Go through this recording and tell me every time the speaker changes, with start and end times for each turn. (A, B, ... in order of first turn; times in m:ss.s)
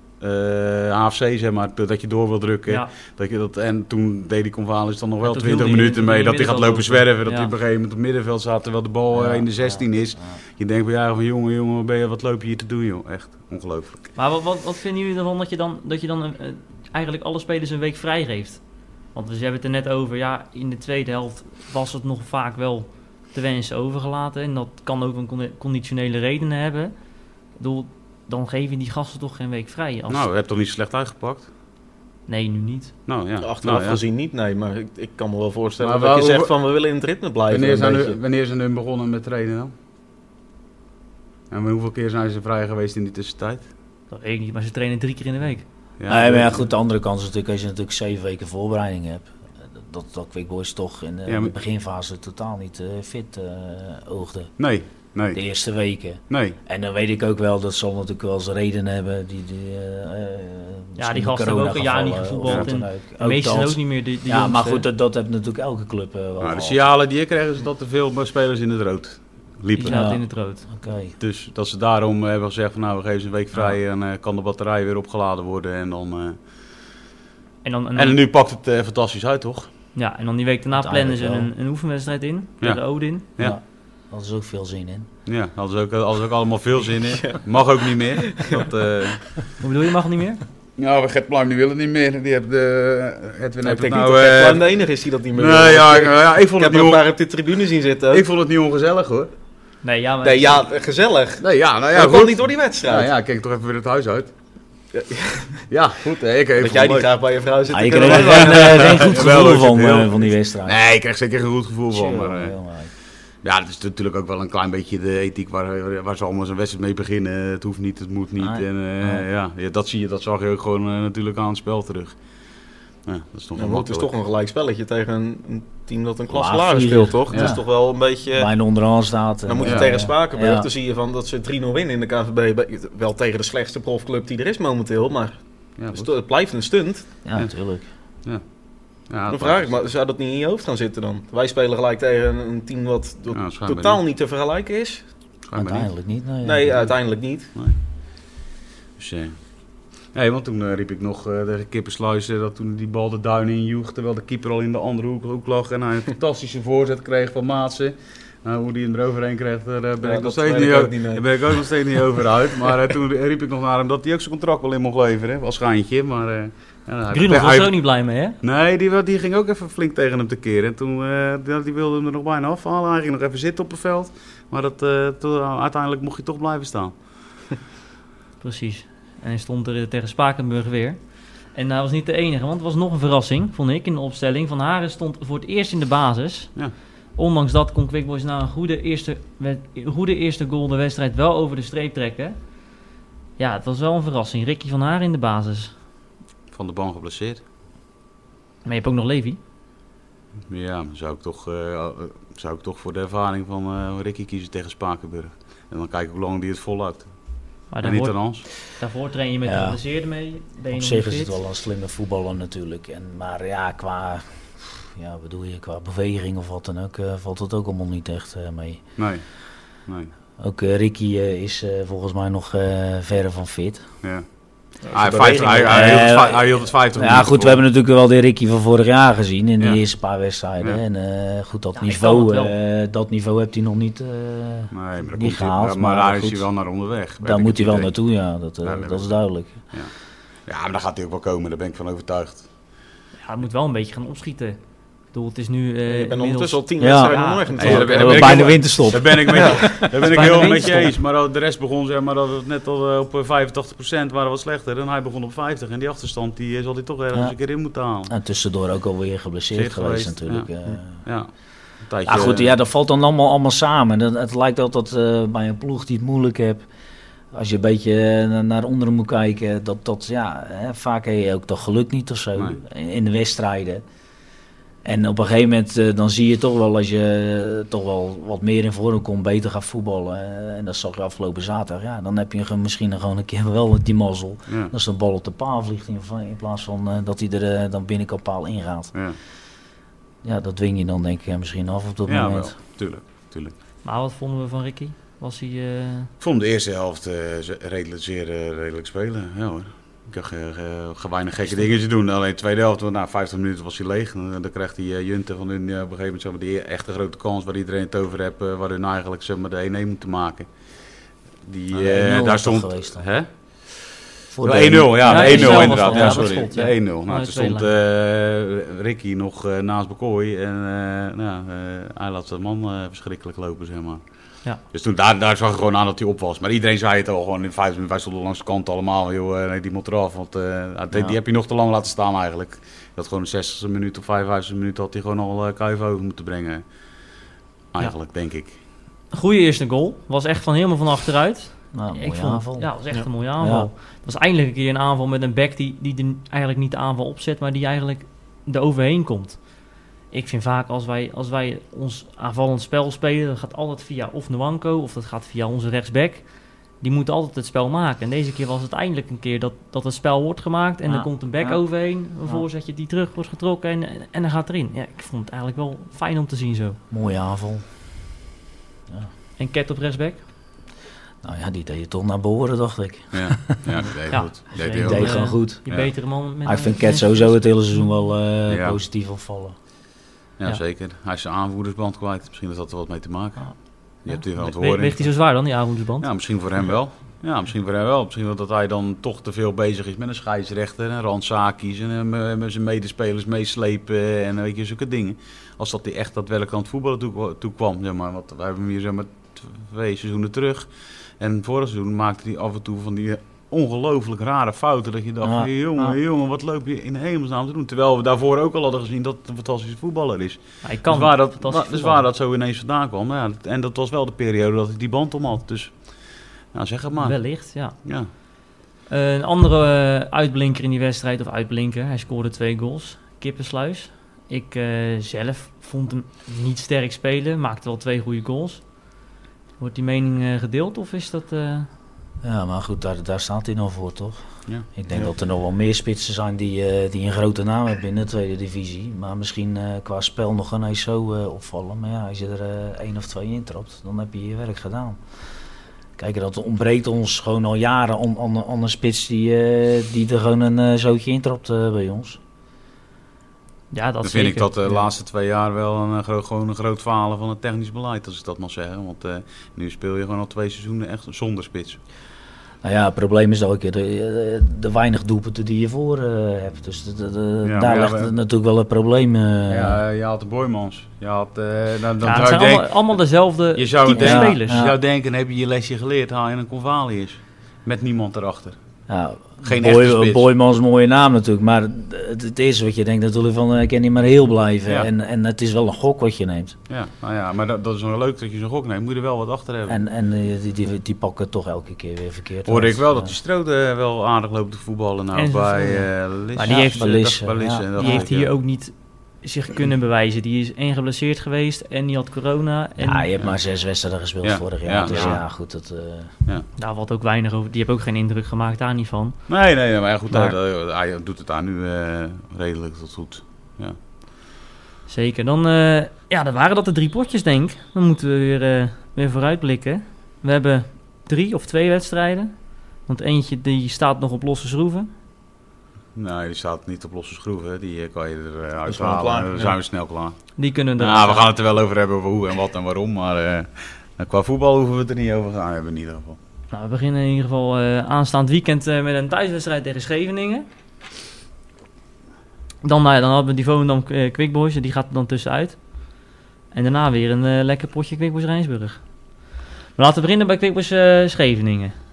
0:00.2-0:14.1 A
0:05.2-0:07.5 B
0:09.1-0:10.4 C
0:14.2-0:26.9 B
0:27.6-0:30.3 B
0:30.1-0:31.5 A
0:32.3-0:32.9 B
0:33.1-0:34.0 A
0:33.4-0:38.2 D
0:35.8-0:36.5 A
0:37.5-0:39.7 A
0:41.5-0:43.7 A
0:44.1-0:45.7 B
0:46.0-0:46.6 A
0:46.1-0:54.5 C
0:51.3-0:51.5 A
0:54.6-0:55.4 A
0:55.3-1:06.8 C
0:56.3-0:56.6 A
1:01.0-1:04.9 B
1:06.4-1:10.0 A
1:09.8-1:10.7 B
1:09.9-1:11.2 C
1:11.2-1:16.4 A
1:17.6-1:18.2 B
1:18.0-1:19.7 A
1:20.0-1:23.3 B
1:20.8-1:21.5 C
1:22.6-1:23.6 A
1:23.4-1:25.1 C
1:25.3-1:29.4 A
1:28.3-1:28.6 D
1:29.6-1:30.4 B
1:30.8-1:34.7 A
1:33.6-1:38.2 D
1:35.4-1:37.1 A
1:38.1-1:39.3 A
1:39.8-1:40.6 B
1:40.2-1:43.1 D
1:41.4-1:44.3 A
1:44.9-1:45.6 D
1:45.7-1:47.1 A
1:46.6-1:49.2 D
1:47.7-1:50.8 C
1:47.8-1:52.6 A
1:51.9-1:52.9 C
1:53.4-2:02.2 A
1:58.4-1:59.3 C
2:03.1-2:04.1 A
2:03.6-2:08.5 D
2:06.3-2:07.7 C
2:07.3-2:07.6 A
2:08.3-2:10.7 C
2:09.5-2:17.1 D
2:09.6-2:09.9 A
2:15.8-2:16.1 A
2:17.2-2:17.9 C
2:19.1-2:19.9 A
2:19.3-2:25.0 D
2:23.3-2:24.0 A
2:25.5-2:25.9 A
2:25.5-2:26.9 C
2:26.4-2:27.5 D
2:29.0-2:29.4 A
2:30.1-2:47.7 A
2:40.0-2:41.3 D
2:47.1-2:48.4 B
2:48.4-2:56.9 A
2:58.4-3:06.6 B
3:07.1-3:12.4 B
3:13.4-3:15.7 B
3:16.5-3:17.4 A
3:18.6-3:19.4 B
3:20.5-3:27.1 A
3:27.7-3:31.3 B
3:27.8-3:28.5 A
3:29.4-3:29.8 C
3:30.7-3:38.8 C
3:39.0-3:39.2 A
3:39.9-3:40.1 A
3:40.4-3:43.9 C
3:44.8-3:45.7 D
3:44.9-3:47.6 A
3:45.6-3:56.5 C
3:51.8-3:52.5 B
3:54.7-3:57.9 A
3:57.2-3:59.6 C
3:58.6-3:59.9 A
4:00.5-4:02.5 A
4:03.2-4:07.8 B
4:05.9-4:08.6 D
4:06.8-4:10.9 C
4:07.6-4:18.1 A
4:09.3-4:09.8 D
4:09.6-4:10.9 B
4:18.1-4:21.0 C
4:19.5-4:21.3 A
4:21.8-4:22.5 A
4:22.0-4:26.7 C
4:27.3-4:33.8 C
4:34.8-4:49.0 C
4:44.5-4:44.7 A
4:50.2-4:52.5 C
4:52.1-4:53.5 A
4:53.8-4:56.1 B
4:56.2-5:10.5 A
5:11.4-5:13.3 A
5:11.7-5:13.1 C
5:14.3-5:16.5 C
5:14.4-5:24.0 A
5:15.0-5:17.7 B
5:24.7-5:36.6 A
5:30.9-5:31.2 C
5:37.7-5:38.6 A
5:39.1-5:49.5 B
5:41.7-5:42.7 C
5:43.4-5:43.7 C
5:50.1-6:06.8 B
6:00.9-6:01.6 C
6:06.9-6:07.6 C
6:09.4-6:10.2 B
6:11.2-6:13.8 C
6:13.1-6:15.9 A
6:14.1-6:17.9 B
6:14.6-6:15.6 C
6:16.4-6:19.6 C
6:18.5-6:18.8 A
6:20.4-6:25.3 A
6:24.1-6:26.1 B
6:26.0-6:40.7 A
6:41.2-6:58.1 A
6:45.2-6:46.0 C
6:50.6-6:52.0 B
6:57.0-6:57.8 B
6:58.9-7:08.9 B
7:09.6-7:11.7 B
7:12.2-7:25.0 C
7:26.0-7:32.2 C
7:33.7-7:34.5 B
7:34.0-7:41.8 A
7:42.6-7:49.8 C
7:47.4-7:48.1 A
7:49.5-7:52.9 A
7:52.0-7:54.6 B
7:53.5-7:58.6 A
7:53.9-7:54.8 C
7:58.9-8:06.6 C
7:59.4-8:00.3 A
8:06.7-8:09.8 A
8:09.7-8:13.2 C
8:12.4-8:18.3 A
8:15.1-8:17.0 B
8:16.5-8:18.1 C
8:17.8-8:23.1 B
8:22.8-8:26.1 C
8:24.2-8:25.2 A
8:24.9-8:25.2 B
8:26.6-8:29.2 B
8:29.3-8:33.8 A
8:34.9-8:44.9 B
8:46.0-8:50.2 A
8:48.7-8:49.6 D
8:50.4-8:51.3 B
8:50.8-8:56.2 A
8:56.5-9:00.5 B
9:02.6-9:05.8 B
9:06.5-9:08.8 B
9:09.8-9:11.8 B